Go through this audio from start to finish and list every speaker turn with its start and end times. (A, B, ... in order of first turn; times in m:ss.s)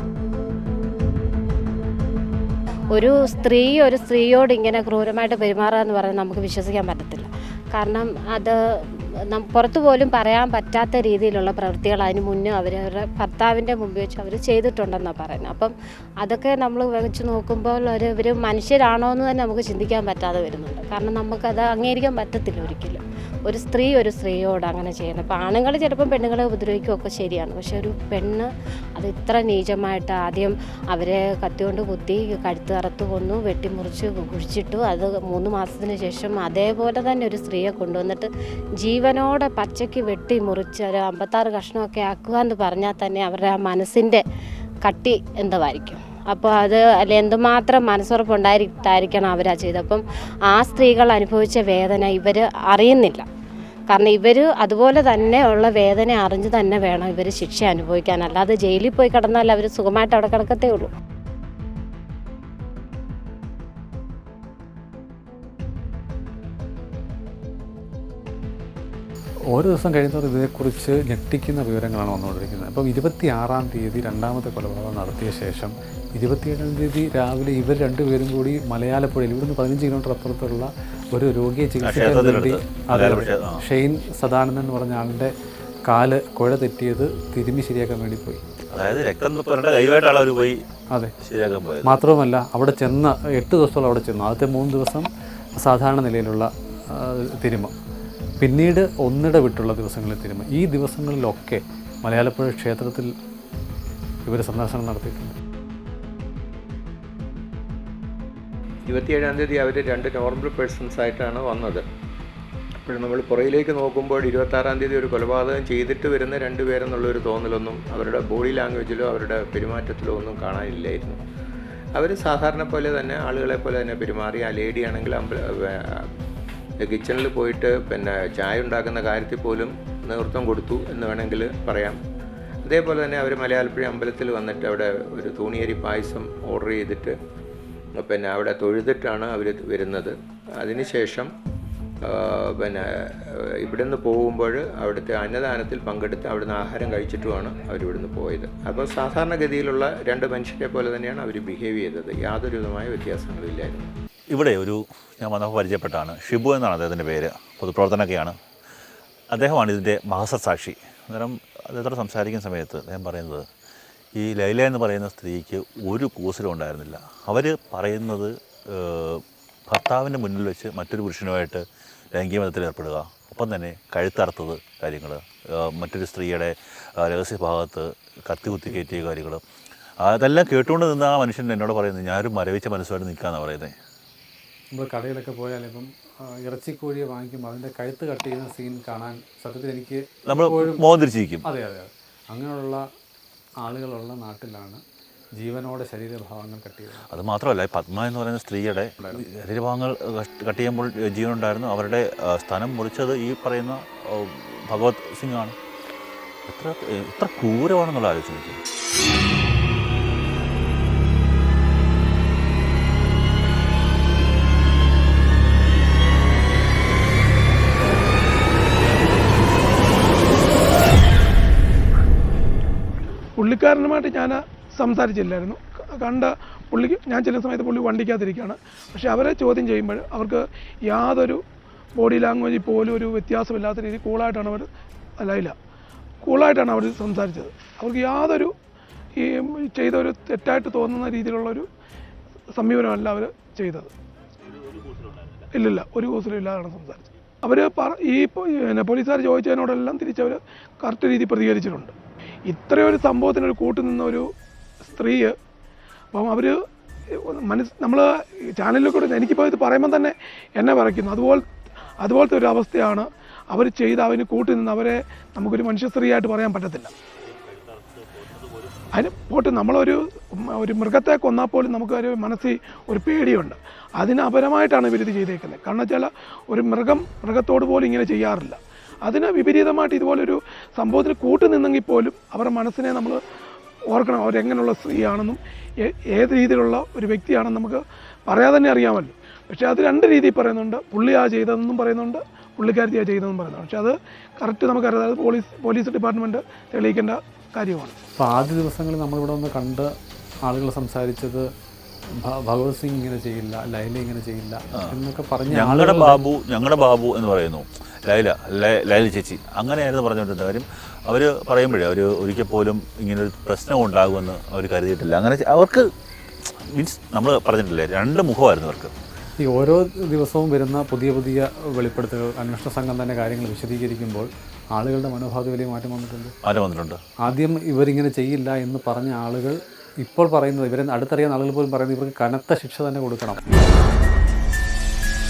0:02.9-0:38.3 A
0:38.8-0:44.2 A
0:44.8-0:53.2 A
0:53.9-1:00.9 A
1:09.5-1:25.3 B
1:21.8-1:23.6 C
1:25.9-1:28.4 B
1:28.7-1:30.6 C
1:31.2-1:32.0 C
1:31.8-1:37.7 B
1:38.4-1:43.1 B
1:44.3-1:45.3 B
1:48.9-1:51.8 D
1:52.8-2:01.2 D
2:01.9-2:05.8 D
2:06.8-2:12.0 D
2:12.6-2:17.1 D
2:18.0-2:21.3 D
2:22.1-2:22.8 D
2:23.5-2:33.9 D
2:34.3-2:38.4 C
2:39.3-2:43.5 C
2:44.2-2:59.4 C
3:00.0-3:03.7 C
3:04.7-3:05.9 B
3:06.4-3:10.8 B
3:10.2-3:11.4 C
3:11.4-3:12.8 B
3:13.6-3:14.8 B
3:15.4-3:17.1 B
3:17.1-3:25.6 C
3:26.4-3:28.6 C
3:43.4-3:51.4 E
3:52.0-3:54.7 E
3:55.2-3:55.6 E
3:56.2-3:58.5 E
3:59.2-4:01.7 E
4:02.5-4:03.9 E
4:04.5-4:05.5 C
4:05.5-4:11.9 E
4:12.5-4:14.3 E
4:14.9-4:15.3 E
4:16.1-4:16.6 E
4:17.2-4:18.0 E
4:18.6-4:21.4 E
4:22.0-4:26.9 E
4:27.2-4:28.8 C
4:28.9-4:43.2 E
4:43.9-4:57.9 E
4:58.2-4:59.9 B
5:00.4-5:01.5 B
5:02.2-5:06.2 B
5:05.5-5:15.9 C
5:16.4-5:18.9 C
5:19.4-5:26.3 B
5:26.4-5:27.0 C
5:27.2-5:33.4 B